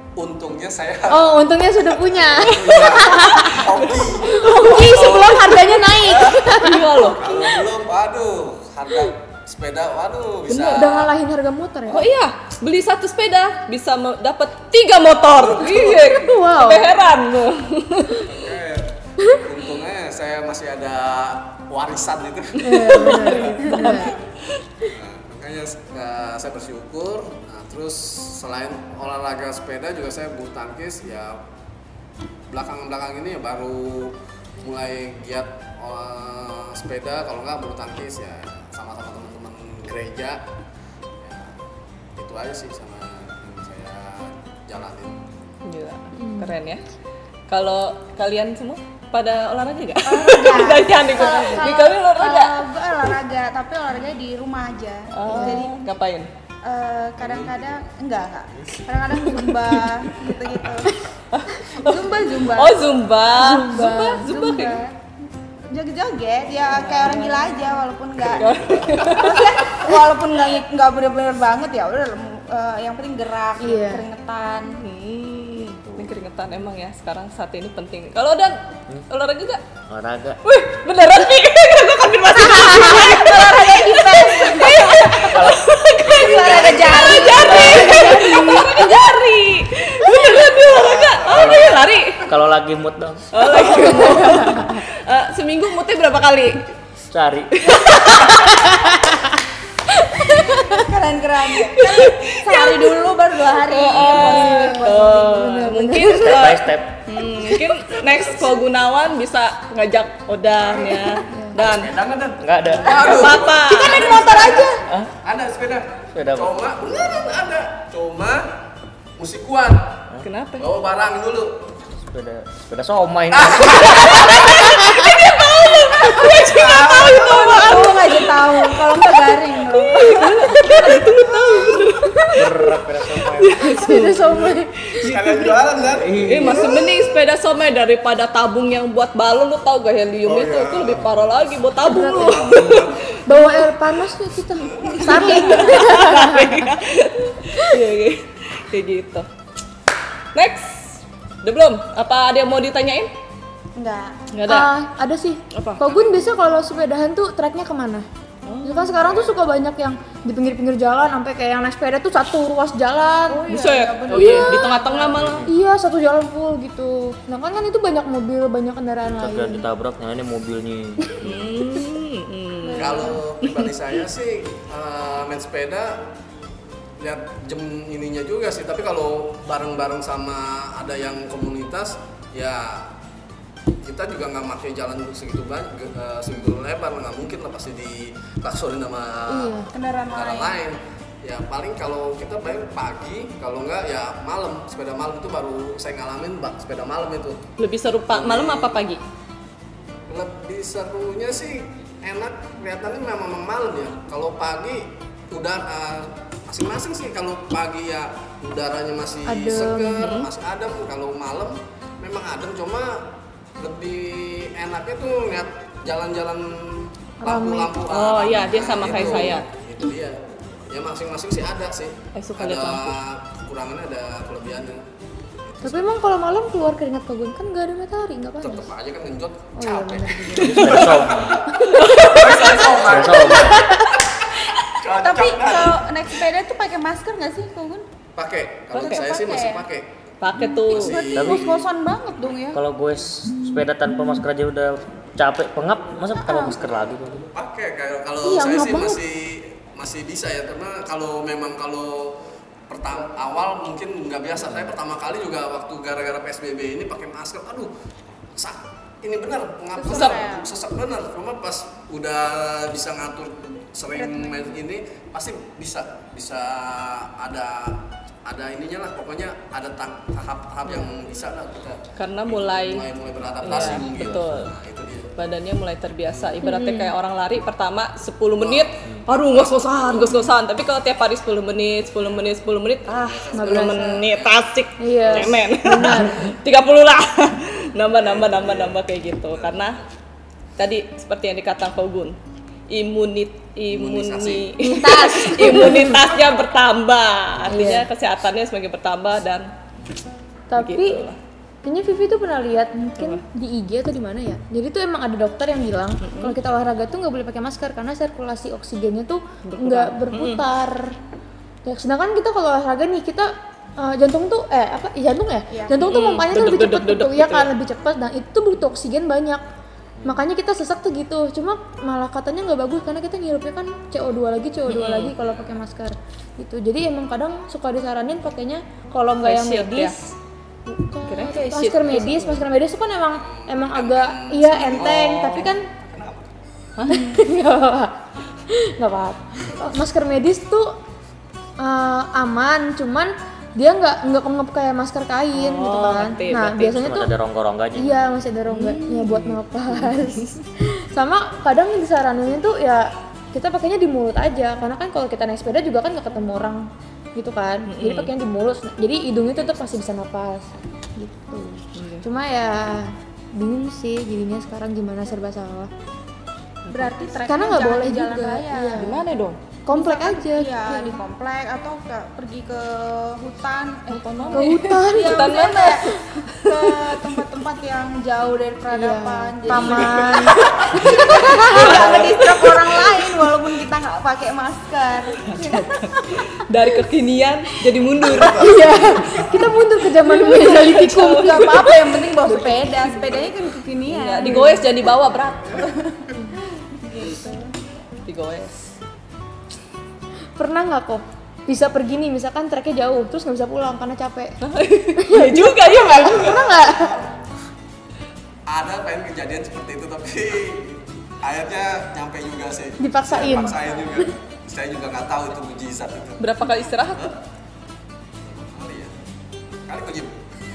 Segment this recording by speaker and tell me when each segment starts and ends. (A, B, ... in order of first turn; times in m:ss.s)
0:00.2-0:11.1 A
0:01.1-0:06.8 B
0:06.6-0:07.3 C
0:10.5-0:12.0 B
0:11.9-0:18.2 C
0:15.3-0:16.3 A
0:16.1-0:16.9 B
0:18.2-0:24.2 A
0:22.6-0:24.1 B
0:22.9-0:24.2 C
0:24.8-0:31.4 A
0:32.5-0:40.4 A
0:41.2-0:41.5 A
0:42.1-0:45.2 A
0:45.6-0:46.8 C
0:46.2-0:46.6 B
0:47.5-0:53.1 C
0:50.0-0:55.8 D
0:51.2-0:51.7 B
0:55.1-0:56.3 C
0:55.3-0:55.7 B
0:56.6-1:00.9 D
0:57.2-0:57.9 A
0:59.3-0:59.9 C
1:01.3-1:04.8 C
1:01.7-1:02.9 D
1:03.4-1:04.3 B
1:03.8-1:05.0 D
1:05.7-1:14.8 D
1:06.7-1:07.7 C
1:08.2-1:09.5 C
1:13.6-1:14.0 B
1:14.7-1:19.6 C
1:19.9-1:20.4 E
1:20.4-1:32.3 C
1:22.4-1:25.5 D
1:25.3-1:25.6 E
1:26.0-1:28.1 A
1:26.1-1:29.0 D
1:30.5-1:31.8 A
1:31.3-1:33.3 E
1:33.3-1:36.7 C
1:33.7-1:34.8 B
1:37.1-1:37.8 E
1:37.6-1:38.9 C
1:38.2-1:39.3 B
1:39.9-1:40.8 C
1:40.3-1:45.2 D
1:41.5-1:51.9 C
1:44.1-1:46.5 B
1:46.2-1:47.0 E
1:48.0-1:48.2 A
1:50.8-1:51.2 D
1:51.3-1:51.6 B
1:51.6-1:58.6 A
1:52.4-1:53.2 E
1:52.9-1:54.2 C
1:53.6-1:54.8 D
1:56.1-1:56.5 E
1:59.2-2:00.0 A
2:00.2-2:00.6 C
2:00.6-2:01.7 A
2:01.9-2:04.2 E
2:03.3-2:08.0 A
2:03.7-2:08.8 C
2:07.0-2:10.5 D
2:09.7-2:12.5 C
2:10.7-2:11.9 A
2:12.4-2:13.6 E
2:13.3-2:17.1 A
2:13.4-2:14.3 C
2:13.6-2:15.9 B
2:14.9-2:15.3 C
2:15.9-2:16.6 E
2:16.2-2:23.7 C
2:20.2-2:21.1 A
2:21.8-2:22.5 B
2:22.1-2:23.2 A
2:23.2-2:26.8 B
2:24.6-2:25.0 A
2:25.0-2:25.9 D
2:25.0-2:29.3 C
2:27.4-2:27.8 B
2:30.3-2:33.1 C
2:33.8-2:34.2 D
2:34.3-2:34.7 C
2:34.4-2:38.0 B
2:35.5-2:36.1 C
2:38.4-2:39.2 C
2:38.6-2:43.5 B
2:43.3-2:45.3 D
2:43.5-2:45.4 C
2:44.1-2:44.7 B
2:45.1-2:45.5 E
2:45.4-2:49.6 B
2:49.2-2:51.3 E
2:51.2-2:53.7 C
2:52.6-2:53.2 D
2:52.7-2:56.1 A
2:57.0-3:02.9 A
3:03.8-3:17.5 A
3:09.3-3:09.7 B
3:09.7-3:10.5 D
3:17.6-3:19.0 C
3:18.1-3:18.8 A
3:20.1-3:44.9 A
3:29.3-3:30.1 B
3:30.0-3:30.3 C
3:37.2-3:37.8 B
3:37.9-3:39.4 C
3:42.1-3:43.0 C
3:45.4-3:45.9 A
3:45.6-3:48.7 B
3:48.4-3:55.8 A
3:49.6-3:50.7 B
3:50.4-3:51.4 E
3:51.6-3:53.7 C
3:52.3-3:53.6 D
3:52.8-3:53.7 E
3:55.0-3:57.8 D
3:58.1-3:59.9 A
3:58.7-3:59.0 C
3:58.8-3:59.6 D
4:00.2-4:01.0 C
4:00.6-4:01.7 A
4:00.7-4:02.6 D
4:01.1-4:01.5 E
4:02.5-4:07.3 E
4:06.2-4:06.6 D
4:07.3-4:17.7 A
4:08.2-4:09.0 B
4:18.3-4:35.1 A
4:19.7-4:20.5 D
4:19.8-4:20.2 C
4:32.0-4:32.9 C
4:33.4-4:34.5 C
4:33.5-4:34.4 E
4:35.2-4:49.8 C
4:36.1-4:36.4 A
4:36.4-4:36.9 B
4:38.4-4:40.3 A
4:42.8-4:44.4 A
4:43.3-4:44.0 B
4:44.8-4:46.3 B
4:45.0-4:45.4 A
4:48.0-4:49.8 A
4:50.6-4:52.2 C
4:52.7-4:59.5 C
4:53.7-4:54.6 A
4:54.6-4:56.2 B
4:54.7-4:55.8 D
4:57.5-4:57.9 B
5:00.5-5:01.1 B
5:00.6-5:01.2 C
5:01.6-5:11.0 B
5:06.0-5:06.4 C
5:09.4-5:10.4 C
5:11.6-5:19.4 B
5:15.5-5:15.8 D
5:15.8-5:17.5 C
5:20.0-5:30.1 B
5:24.7-5:25.1 C
5:25.2-5:25.6 A
5:29.2-5:30.0 C
5:30.6-5:35.7 B
5:31.0-5:32.4 C
5:33.2-5:36.5 A
5:36.8-5:37.2 C
5:36.9-5:38.0 B
5:38.5-5:40.8 B
5:41.6-5:47.1 B
5:45.3-5:46.7 C
5:46.5-5:48.0 E
5:47.8-6:05.7 B
5:48.5-5:50.3 C
5:57.7-5:58.1 C
6:01.7-6:02.0 C
6:06.7-6:06.9 C
6:06.7-6:08.9 D
6:07.2-6:09.0 B
6:08.8-6:09.4 C
6:09.6-6:11.0 B
6:09.7-6:26.2 D
6:13.9-6:17.1 C
6:14.3-6:15.3 B
6:18.7-6:20.4 B
6:19.5-6:20.1 C
6:21.4-6:22.9 C
6:21.7-6:22.1 A
6:25.4-6:28.9 C
6:28.3-6:31.5 B
6:30.0-6:33.2 C
6:31.0-6:34.6 D
6:33.8-6:35.6 C
6:34.2-6:34.6 B
6:35.5-6:37.5 D
6:38.0-6:38.6 C
6:40.4-6:44.4 B
6:44.4-6:46.4 C
6:45.0-6:46.9 B
6:45.9-6:47.1 A
6:48.5-6:56.4 A
6:52.8-6:54.0 B
6:56.2-6:57.0 C
6:58.3-6:58.9 A
6:59.6-7:00.2 A